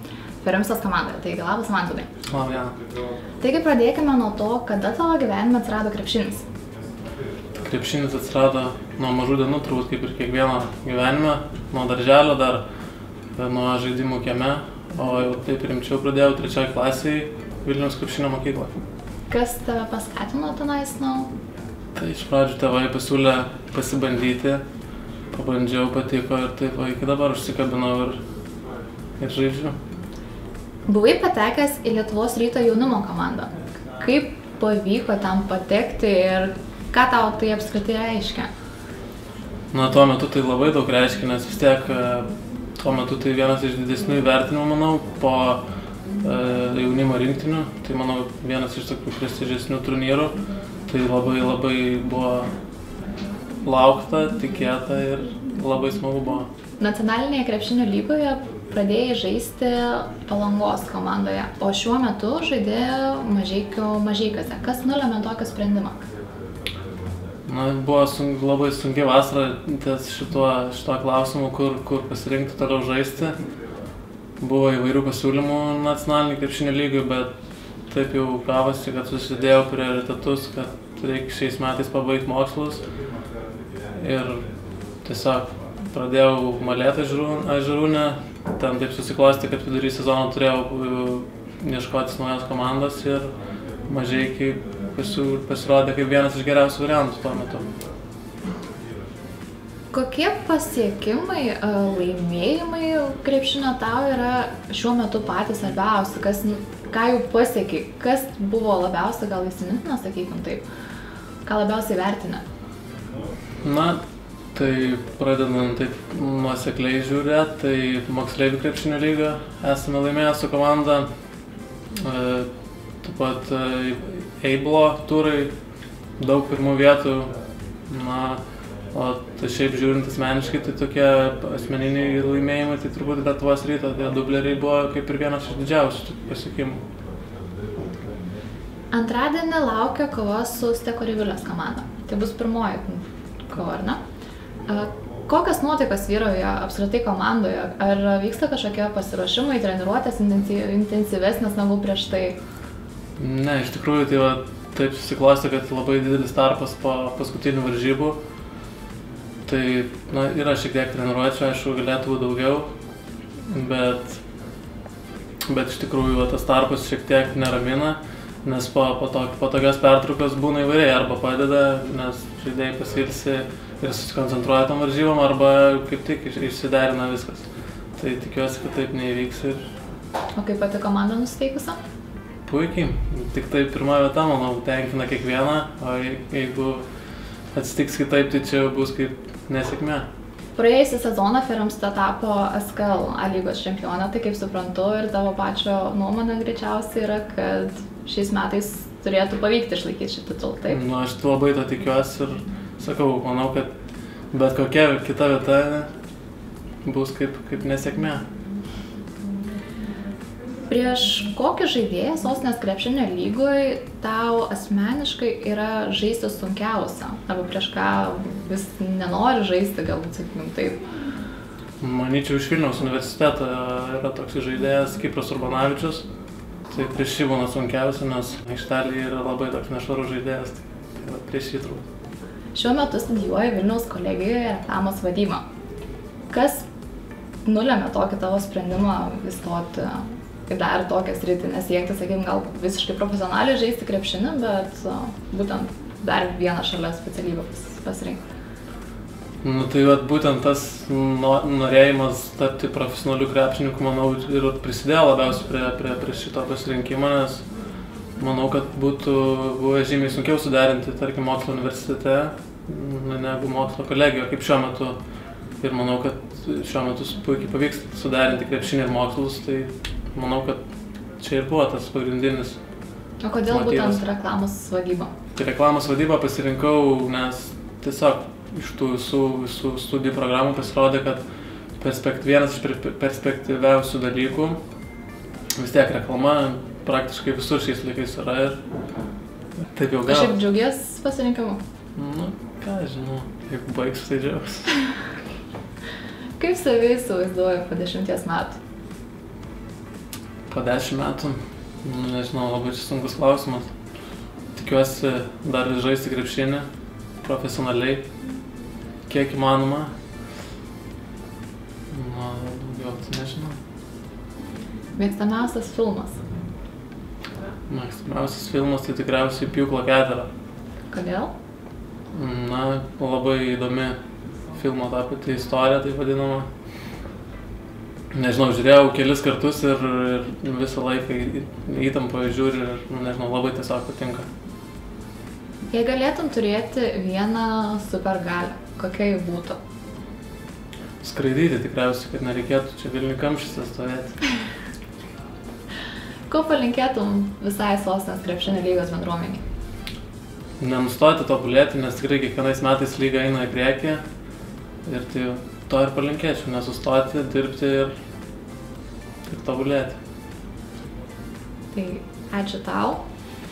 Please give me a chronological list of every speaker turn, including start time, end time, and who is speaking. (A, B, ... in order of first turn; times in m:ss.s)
0:00.4-0:02.1 A
0:02.2-0:02.8 B
0:03.4-0:06.4 A
0:07.6-0:12.6 B
0:13.4-0:18.7 B
0:19.3-0:21.3 A
0:21.9-0:24.6 B
0:25.3-0:28.2 B
0:29.2-0:29.7 B
0:30.9-0:38.5 A
0:39.7-0:45.6 B
0:46.2-0:52.5 B
0:53.6-0:56.5 B
0:56.8-1:06.1 A
1:07.5-1:13.4 B
1:14.4-1:17.3 B
1:17.9-1:22.8 B
1:24.0-1:24.5 B
1:25.0-1:33.3 B
1:33.8-1:37.7 B
1:39.9-1:50.6 A
1:51.4-1:52.4 A
1:53.6-1:54.0 B
1:54.5-2:01.1 B
2:02.0-2:02.5 B
2:03.0-2:05.5 B
2:06.2-2:07.4 B
2:07.9-2:08.4 B
2:08.9-2:16.8 B
2:18.9-2:24.0 A
2:24.6-2:32.4 A
2:33.2-2:38.2 B
2:39.4-2:42.7 B
2:43.5-2:44.2 B
2:45.5-2:57.4 B
2:58.0-2:59.6 B
3:00.4-3:01.8 A
3:02.4-3:06.8 B
3:07.5-3:10.0 B
3:10.6-3:20.8 A
3:20.7-3:23.7 B
3:24.3-3:25.9 B
3:26.8-3:28.2 B
3:30.7-3:40.8 A
3:41.8-3:46.1 B
3:46.7-3:51.8 B
3:52.5-3:55.4 A
3:56.3-3:56.6 A
3:57.4-4:08.2 A
4:09.4-4:17.5 B
4:18.2-4:25.0 B
4:25.6-4:30.6 B
4:31.2-4:32.6 B
4:33.2-4:35.1 A
4:33.5-4:34.0 B
4:35.3-4:41.2 B
4:41.8-4:44.6 B
4:45.6-4:48.6 B
4:49.7-4:50.3 B
4:50.0-4:51.6 A
4:52.0-4:54.7 B
4:56.4-4:58.6 A
5:00.5-5:03.7 B
5:04.5-5:06.7 B
5:07.2-5:08.0 B
5:09.1-5:09.9 B
5:11.9-5:13.6 B
5:15.0-5:16.2 A
5:17.7-5:20.3 B
5:20.9-5:21.3 A
5:22.1-5:24.0 B
5:24.5-5:26.5 B
5:28.1-5:34.3 B
5:35.7-5:39.6 A
5:41.0-5:44.2 B
5:46.3-5:49.4 A
5:50.6-5:54.0 B
5:54.8-5:57.9 B
5:59.3-6:00.0 B
6:01.7-6:03.0 A